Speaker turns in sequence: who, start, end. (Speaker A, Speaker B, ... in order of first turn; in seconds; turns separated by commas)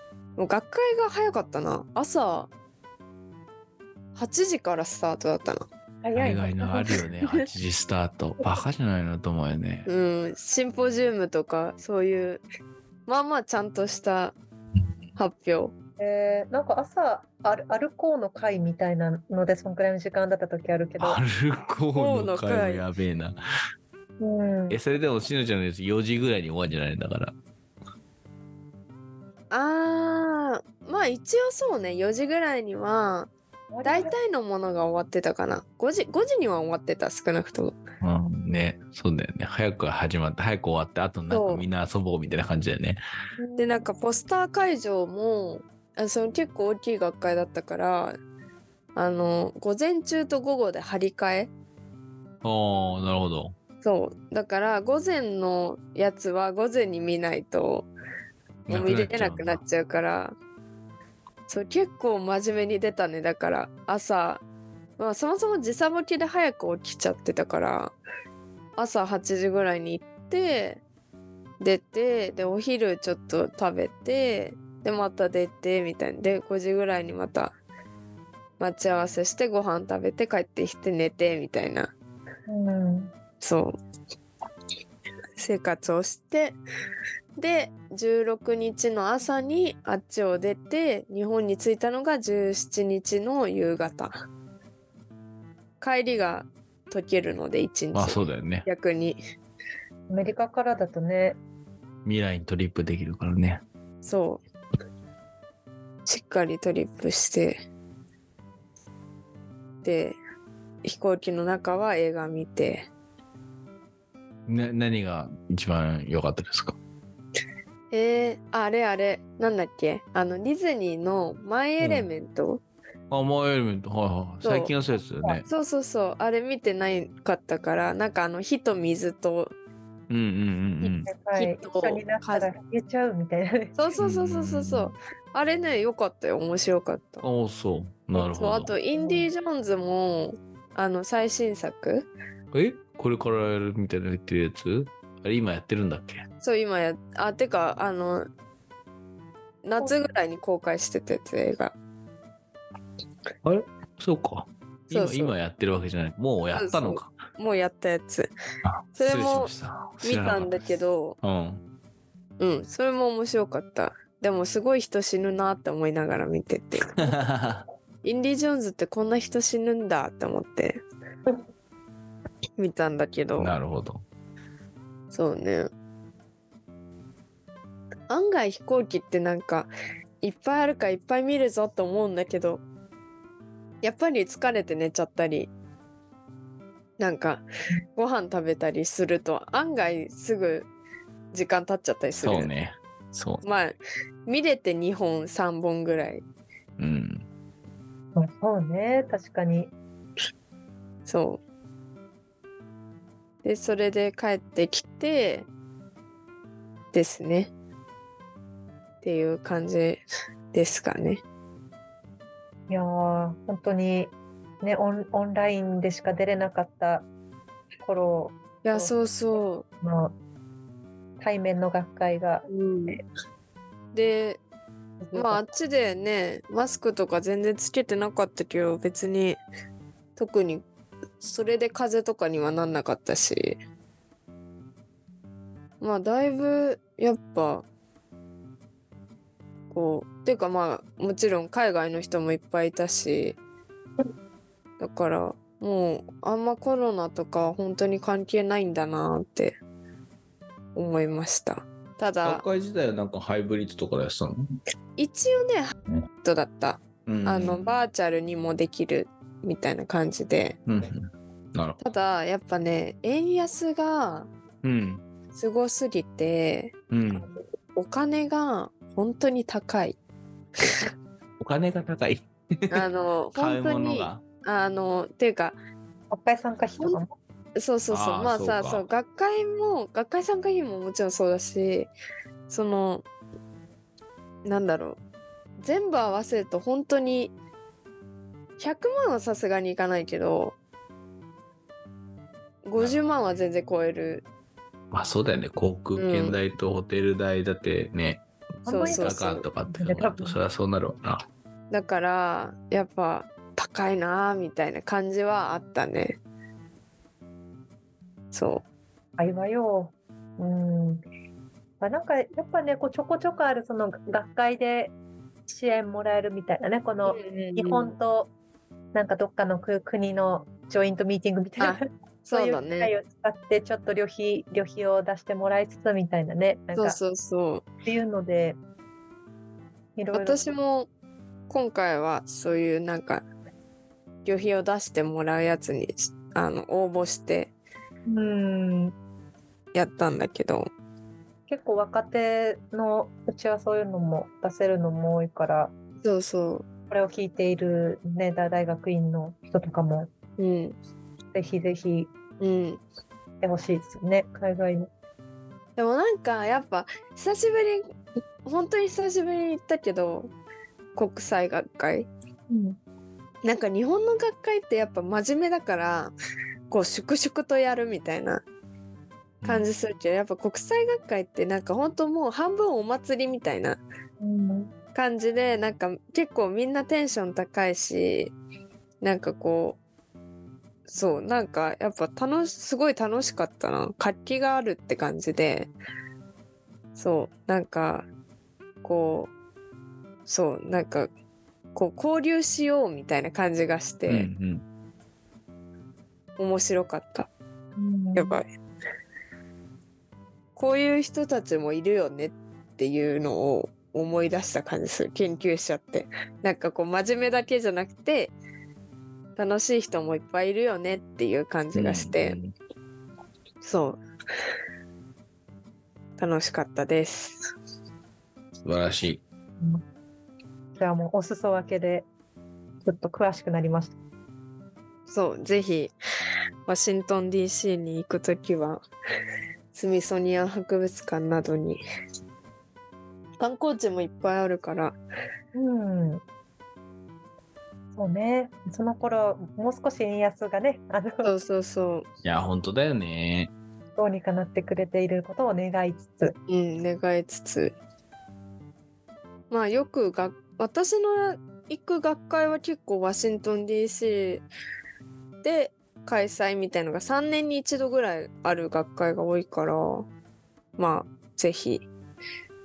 Speaker A: 0.4-2.5, Speaker A: 4.1-5.7, Speaker B: 6.0-6.9, Speaker C: 6.1-9.9, Speaker A: 9.8-12.4, Speaker A: 13.1-14.3, Speaker A: 15.2-15.7, Speaker B: 16.0-21.2, Speaker C: 21.0-23.4, Speaker A: 21.9-22.8, Speaker B: 24.2-24.8, Speaker C: 24.7-27.3, Speaker A: 29.5-33.3, Speaker B: 33.7-34.1, Speaker A: 33.8-37.8, Speaker C: 38.0-43.0, Speaker A: 41.3-41.6, Speaker B: 43.4-43.9, Speaker A: 43.6-48.2, Speaker A: 48.9-51.5, Speaker C: 52.4-53.5, Speaker A: 53.8-57.9, Speaker A: 58.7-60.3, Speaker C: 58.7-59.6, Speaker A: 61.5-64.4, Speaker A: 65.0-67.9, Speaker A: 68.8-70.8, Speaker A: 71.6-77.5, Speaker A: 78.6-81.9, Speaker B: 82.5-83.1, Speaker A: 83.4-83.8, Speaker A: 85.4-86.6, Speaker A: 87.4-94.2, Speaker A: 95.8-99.2, Speaker C: 97.9-98.7, Speaker B: 100.1-101.4, Speaker C: 102.0-103.6, Speaker A: 104.0-104.4, Speaker A: 106.0-107.6, Speaker A: 109.8-110.2, Speaker A: 110.8-112.9, Speaker C: 114.5-116.8, Speaker A: 117.9-122.6, Speaker C: 121.8-122.1, Speaker C: 123.1-125.4, Speaker A: 124.4-124.7, Speaker A: 125.4-129.5, Speaker C: 130.1-131.1, Speaker B: 130.8-133.8, Speaker A: 131.3-132.5, Speaker A: 133.8-137.2, Speaker C: 134.0-134.9, Speaker C: 137.2-138.7, Speaker A: 138.1-142.1, Speaker B: 138.9-139.3, Speaker C: 142.5-146.2, Speaker A: 146.4-148.3, Speaker A: 149.6-151.7, Speaker C: 153.4-157.1, Speaker A: 154.9-155.3, Speaker A: 156.5-158.3, Speaker C: 158.6-160.6, Speaker A: 158.9-161.2, Speaker C: 161.2-161.6, Speaker A: 162.4-167.1, Speaker C: 167.0-167.6, Speaker A: 168.0-170.8, Speaker A: 172.6-173.5, Speaker C: 173.4-174.0, Speaker A: 175.1-175.7, Speaker A: 178.1-179.7, Speaker A: 180.2-182.6, Speaker A: 183.8-185.5, Speaker A: 187.0-187.4, Speaker A: 187.9-190.7, Speaker A: 191.3-192.5, Speaker C: 192.2-193.4, Speaker A: 193.4-193.7, Speaker A: 194.2-196.2, Speaker C: 196.8-197.2, Speaker B: 198.1-199.7, Speaker A: 201.1-201.4, Speaker A: 203.4-205.4, Speaker A: 206.9-207.5, Speaker A: 209.0-210.0, Speaker A: 210.5-211.2, Speaker B: 212.7-217.1, Speaker B: 217.8-218.9, Speaker A: 218.6-219.6, Speaker B: 219.8-220.1, Speaker B: 221.2-223.0, Speaker A: 222.5-223.0, Speaker A: 223.9-224.4, Speaker B: 225.0-225.4, Speaker A: 225.1-229.4, Speaker A: 230.2-230.6, Speaker A: 231.2-233.6, Speaker A: 235.8-237.6, Speaker A: 239.7-243.4, Speaker A: 244.8-249.6, Speaker A: 250.8-252.4, Speaker C: 252.2-254.4, Speaker A: 255.0-260.6, Speaker C: 257.1-257.7, Speaker C: 260.7-261.8, Speaker A: 261.8-264.3, Speaker C: 264.6-265.0, Speaker A: 265.3-266.7, Speaker C: 266.9-267.2, Speaker A: 267.7-269.9, Speaker C: 271.4-274.2, Speaker A: 272.7-275.6, Speaker B: 276.1-277.1, Speaker A: 277.6-281.9, Speaker C: 277.9-278.9, Speaker A: 282.5-283.0, Speaker A: 284.4-285.0, Speaker A: 285.6-287.3, Speaker A: 288.6-290.6, Speaker A: 292.6-294.2, Speaker C: 294.9-298.2, Speaker A: 295.9-296.4, Speaker A: 298.6-299.4, Speaker B: 298.7-300.4, Speaker C: 298.8-301.2, Speaker A: 301.7-306.2, Speaker A: 308.3-308.6, Speaker B: 309.2-311.0, Speaker B: 311.8-314.9, Speaker B: 315.5-318.3, Speaker A: 317.1-317.9, Speaker B: 318.9-321.8, Speaker A: 321.6-322.9, Speaker B: 322.3-327.0, Speaker A: 326.7-327.6, Speaker B: 327.8-328.6, Speaker B: 329.9-330.4, Speaker A: 330.1-330.9, Speaker A: 331.5-333.2, Speaker A: 334.2-337.5, Speaker B: 338.1-338.9, Speaker A: 339.7-340.7, Speaker B: 341.5-345.7, Speaker A: 346.0-346.6, Speaker B: 346.9-350.1, Speaker A: 350.4-350.8, Speaker B: 351.3-352.1, Speaker A: 352.4-352.8, Speaker B: 353.4-354.9, Speaker A: 355.8-357.8, Speaker A: 358.4-360.3, Speaker A: 360.9-362.1, Speaker B: 362.5-362.8, Speaker A: 363.4-366.1, Speaker A: 366.7-368.4, Speaker C: 369.4-369.7, Speaker A: 369.4-373.8, Speaker B: 374.2-374.7, Speaker A: 374.9-378.3, Speaker A: 379.0-379.8, Speaker A: 380.9-385.7, Speaker A: 386.9-388.1, Speaker A: 388.8-389.3, Speaker A: 390.3-391.1, Speaker A: 391.7-394.3, Speaker C: 394.1-394.6, Speaker A: 396.4-397.3, Speaker B: 397.8-398.4, Speaker A: 398.1-398.4, Speaker A: 400.6-408.3, Speaker A: 409.4-412.4, Speaker C: 411.7-412.5, Speaker A: 413.6-414.0, Speaker A: 416.2-417.4, Speaker C: 418.6-419.2, Speaker B: 420.8-422.1, Speaker B: 422.8-423.9, Speaker A: 425.1-425.9, Speaker A: 426.7-428.8, Speaker A: 429.7-431.8, Speaker A: 433.4-434.9, Speaker B: 435.5-436.2, Speaker B: 437.9-441.3, Speaker A: 441.2-442.1, Speaker C: 442.2-443.5, Speaker B: 444.0-446.3, Speaker A: 446.5-447.7, Speaker A: 449.5-454.4, Speaker A: 455.4-460.1, Speaker A: 460.8-461.9